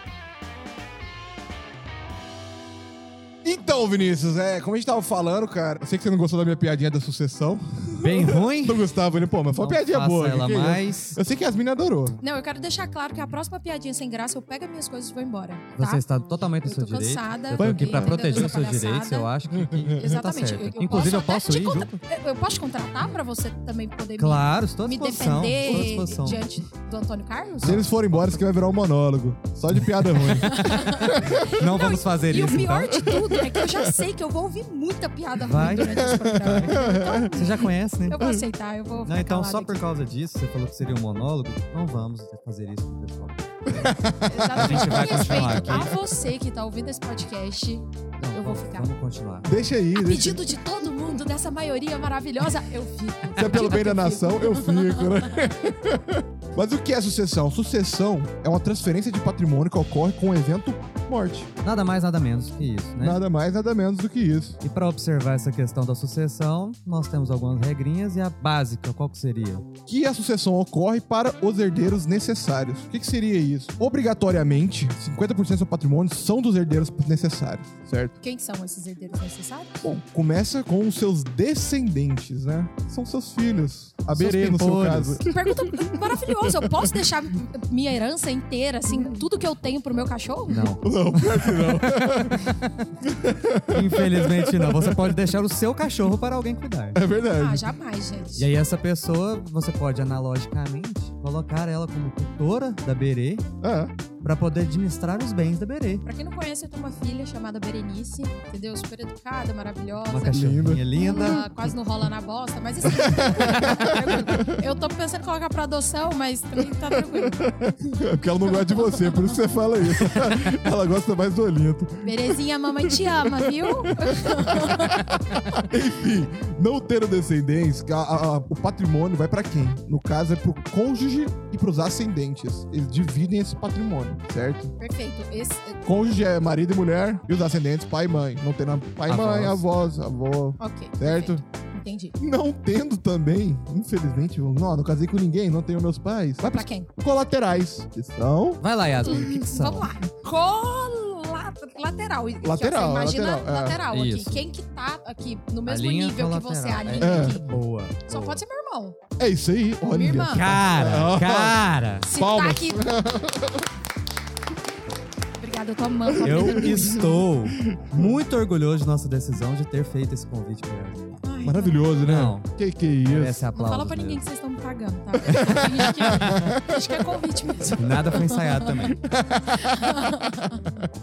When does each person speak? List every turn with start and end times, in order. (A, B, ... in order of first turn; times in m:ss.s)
0:03.4-0:12.2 A
0:08.0-0:08.9 B
0:09.5-0:11.2 B
0:12.2-0:16.0 C
0:15.8-0:21.9 B
0:16.6-0:19.3 C
0:17.6-0:18.5 A
0:19.6-0:19.9 A
0:19.9-0:27.8 C
0:24.2-0:26.4 B
0:27.6-0:31.5 A
0:27.6-0:28.3 B
0:29.8-0:33.2 B
0:30.2-0:39.8 C
0:33.3-0:33.8 A
0:35.4-0:36.8 B
0:35.6-0:37.5 A
0:37.3-0:38.2 B
0:39.0-0:43.9 B
0:43.7-0:46.0 A
0:44.3-0:48.9 C
0:44.5-0:45.9 B
0:48.2-0:49.5 B
0:49.4-0:50.6 A
0:50.0-0:55.2 C
0:53.4-1:01.5 A
1:01.6-1:03.2 B
1:03.0-1:04.6 A
1:04.6-1:09.6 B
1:09.9-1:18.2 A
1:18.2-1:19.9 C
1:19.8-1:26.9 A
1:24.1-1:25.2 B
1:25.3-1:30.7 C
1:30.5-1:32.7 B
1:30.8-1:32.4 A
1:33.0-1:35.2 A
1:33.7-1:37.0 B
1:36.9-1:37.7 A
1:37.4-1:38.4 C
1:38.4-1:43.4 B
1:43.6-1:43.9 A
1:44.2-1:46.0 B
1:46.0-1:58.0 C
1:50.1-1:51.7 B
1:50.3-1:51.4 A
1:52.8-1:54.6 A
1:57.4-2:14.7 A
1:58.5-1:59.4 C
2:02.0-2:05.6 C
2:14.8-2:15.8 C
2:15.8-2:21.4 A
2:19.1-2:19.6 B
2:20.6-2:22.1 C
2:22.2-2:29.4 A
2:26.4-2:26.9 C
2:28.6-2:29.9 B
2:29.0-2:37.4 C
2:32.4-2:33.8 A
2:33.9-2:34.4 B
2:35.6-2:38.4 B
2:37.0-2:37.4 A
2:38.1-2:39.0 C
2:39.2-2:43.7 A
2:39.8-2:40.5 C
2:40.3-2:42.1 B
2:42.0-2:42.9 C
2:45.4-2:47.1 C
2:46.1-2:48.1 A
2:46.2-2:51.2 B
2:51.2-2:52.0 C
2:51.4-2:53.4 A
2:52.0-2:52.5 B
2:53.0-2:54.2 B
2:53.5-3:00.6 C
2:55.3-2:56.8 A
2:56.1-2:56.5 B
2:57.8-2:59.0 B
2:59.0-3:00.9 A